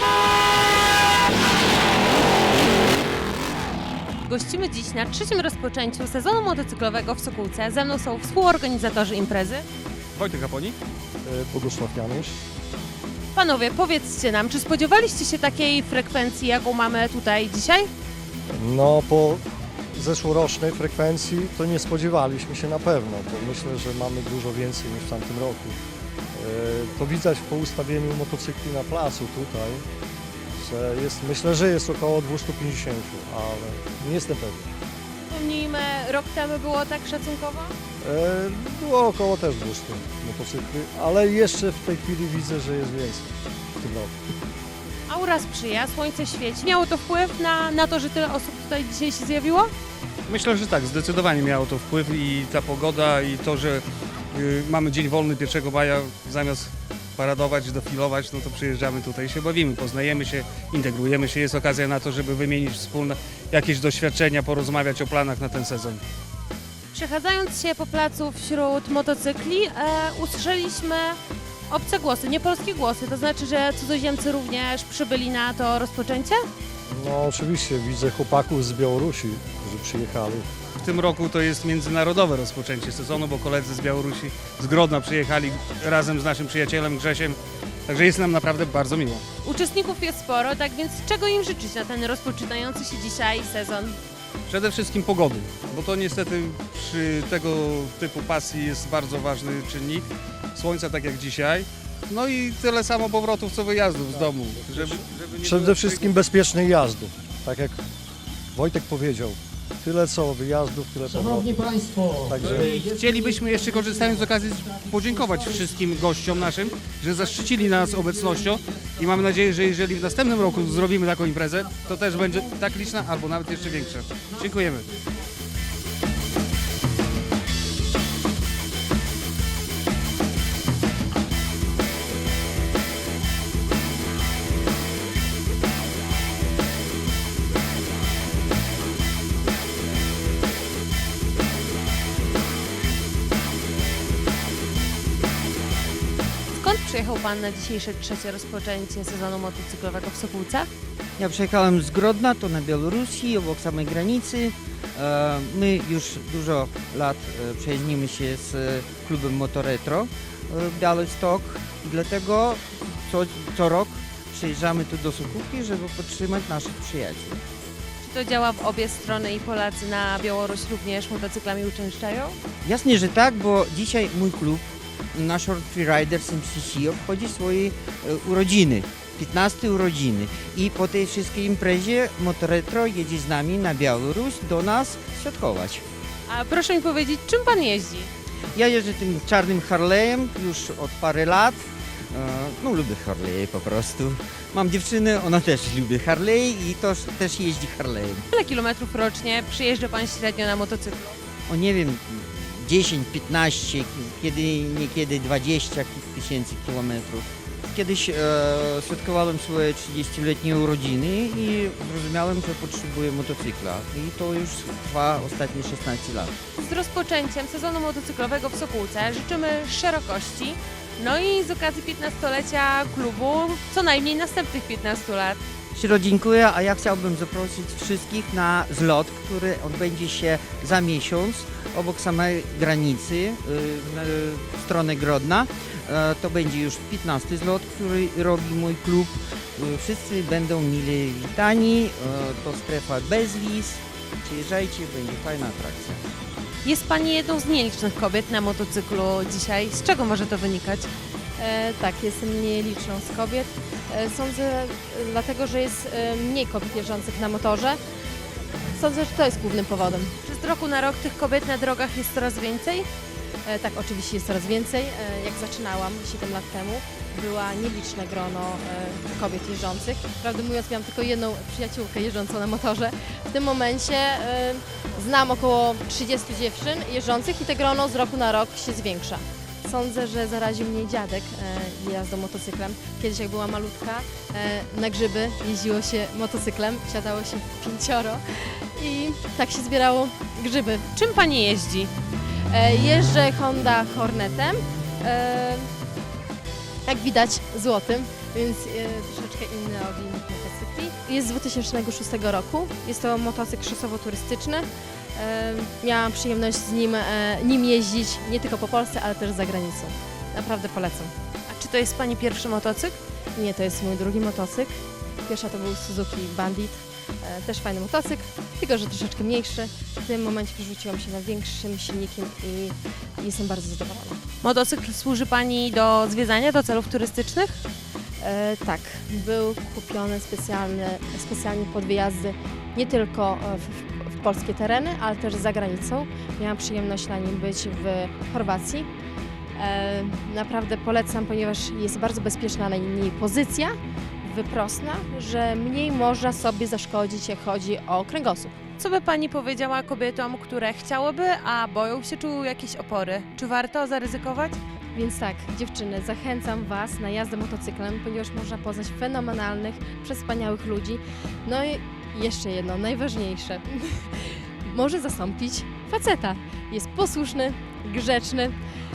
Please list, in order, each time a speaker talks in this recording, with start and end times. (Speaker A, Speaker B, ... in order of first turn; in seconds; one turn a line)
Speaker A: 4.2-9.7
Speaker B: 10.1-10.8
Speaker C: 11.2-12.4
Speaker A: 13.3-17.9
Speaker C: 18.5-25.8
Speaker C: 26.3-29.8
Speaker C: 30.6-34.7
Speaker A: 35.3-37.7
Speaker C: 38.0-44.2
Speaker A: 45.1-49.7
Speaker B: 50.3-66.0
Speaker A: 66.9-71.2
Speaker A: 71.7-76.4
Speaker C: 76.9-80.5
Speaker B: 80.8-89.2
Speaker A: 89.4-94.0
Speaker B: 94.5-106.2
Speaker C: 104.1-107.8
Speaker C: 108.5-112.8
Speaker B: 112.4-124.9
Speaker A: 146.5-150.7
Speaker D: 151.2-167.4
Speaker A: 168.0-172.4
Speaker D: 172.6-185.8
Speaker A: 186.3-188.1
Speaker D: 188.5-191.6
Speaker D: 192.1-198.2
Speaker A: 198.3-201.1
Speaker D: 201.5-216.3
Speaker A: 216.6-225.4
Speaker D: 225.7-246.0
Speaker A: 246.6-250.9
Speaker E: 251.4-257.8
Speaker E: 258.7-260.1
Speaker A: 260.2-262.9
Speaker E: 263.4-288.2
Speaker E: 288.7-290.9
Speaker A: 290.9-291.9
Speaker E: 292.5-295.7
Speaker E: 296.9-311.1
Speaker A: 311.5-313.0
Speaker E: 313.4-324.2
Speaker A: 324.4-327.6
Speaker E: 328.2-338.9
Speaker E: 339.6-348.6
Speaker A: 348.8-354.6
Speaker E: 354.9-368.6